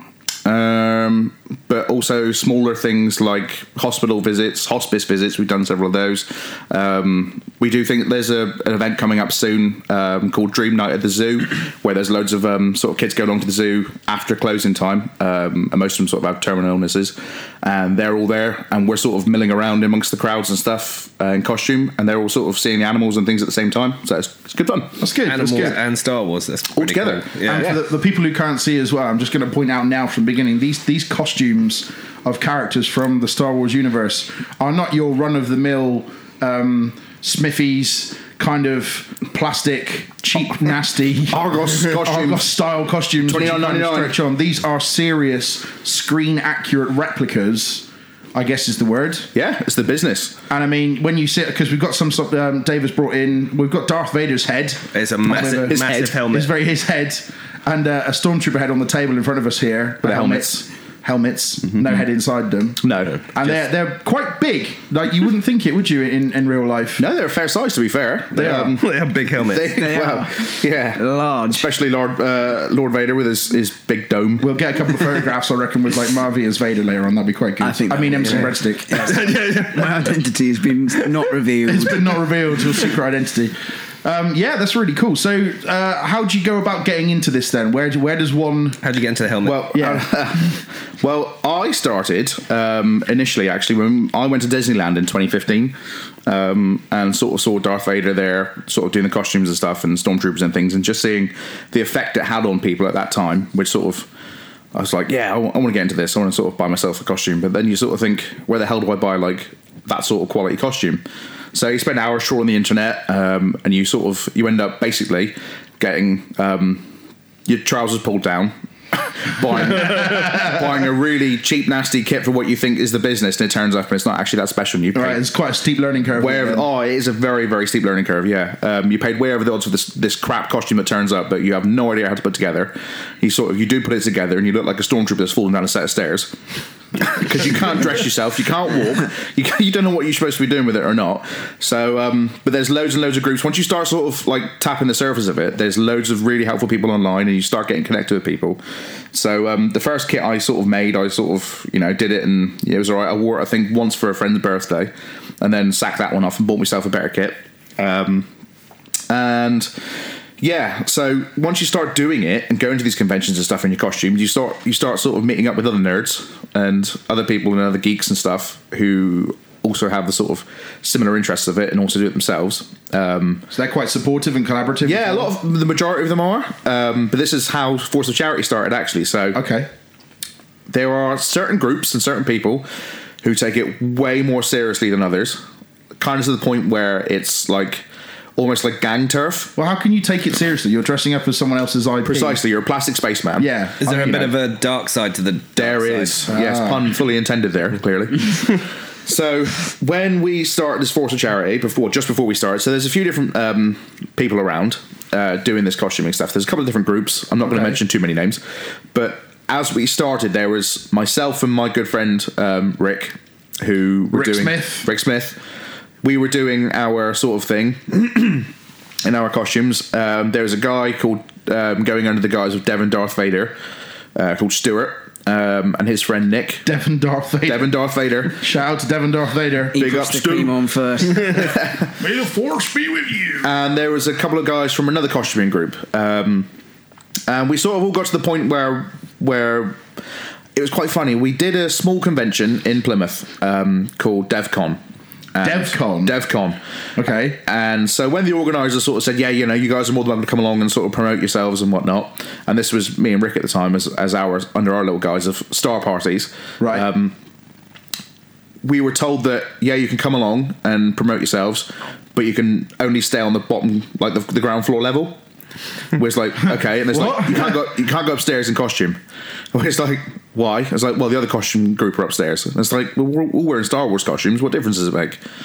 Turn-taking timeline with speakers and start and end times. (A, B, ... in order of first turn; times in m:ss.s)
0:00.4-0:25.7 A
0:25.0-0:25.8 B
0:25.2-0:27.8 C
0:26.7-0:27.8 A
0:27.4-0:49.3 B
0:41.3-0:42.5 A
0:43.2-0:44.2 A
0:49.3-0:50.4 A
0:50.5-1:07.0 B
0:54.9-0:56.5 C
0:55.6-0:56.2 A
1:00.0-1:00.6 A
1:02.8-1:03.3 A
1:07.0-1:14.5 A
1:08.4-1:08.8 B
1:08.5-1:09.8 C
1:09.7-1:11.7 D
1:14.4-1:19.3 B
1:17.6-1:22.2 D
1:19.0-1:20.1 C
1:21.6-1:28.8 B
1:28.8-1:29.7 C
1:29.4-1:44.1 A
1:29.7-1:30.1 B
1:44.7-1:51.0 A
1:51.5-1:56.9 A
1:57.5-2:05.2 A
2:04.9-2:06.7 B
2:06.2-2:16.4 A
2:17.0-2:28.6 A
2:29.1-2:38.3 A
2:39.1-2:39.7 A
2:40.4-2:53.5 A
2:53.5-2:55.3 B
2:54.8-2:59.4 A
2:59.3-2:59.7 B
3:00.7-3:02.7 A
3:03.2-3:05.4 A
3:06.0-3:07.8 A
3:08.4-3:09.5 A
3:09.6-3:12.4 B
3:12.1-3:13.5 A
3:13.4-3:14.3 B
3:13.8-3:16.3 C
3:15.6-3:28.4 A
3:16.3-3:16.8 B
3:27.4-3:27.8 B
3:28.9-3:35.4 A
3:34.1-3:34.9 B
3:36.0-3:38.5 A
3:39.0-3:43.6 A
3:44.1-3:46.6 A
3:46.6-3:47.7 B
3:47.4-3:48.4 A
3:48.3-3:49.8 B
3:49.7-3:51.6 D
3:49.8-3:50.6 A
3:51.1-3:51.9 A
3:52.0-3:53.5 B
3:53.4-3:56.5 A
3:57.3-3:59.8 A
4:00.6-4:04.8 A
4:05.4-4:06.6 A
4:05.4-4:06.2 B
4:07.0-4:07.4 B
4:07.4-4:17.1 A
4:16.6-4:16.9 B
4:18.6-4:25.2 A
4:25.9-4:29.0 A
4:26.9-4:27.6 B
4:29.5-4:35.2 A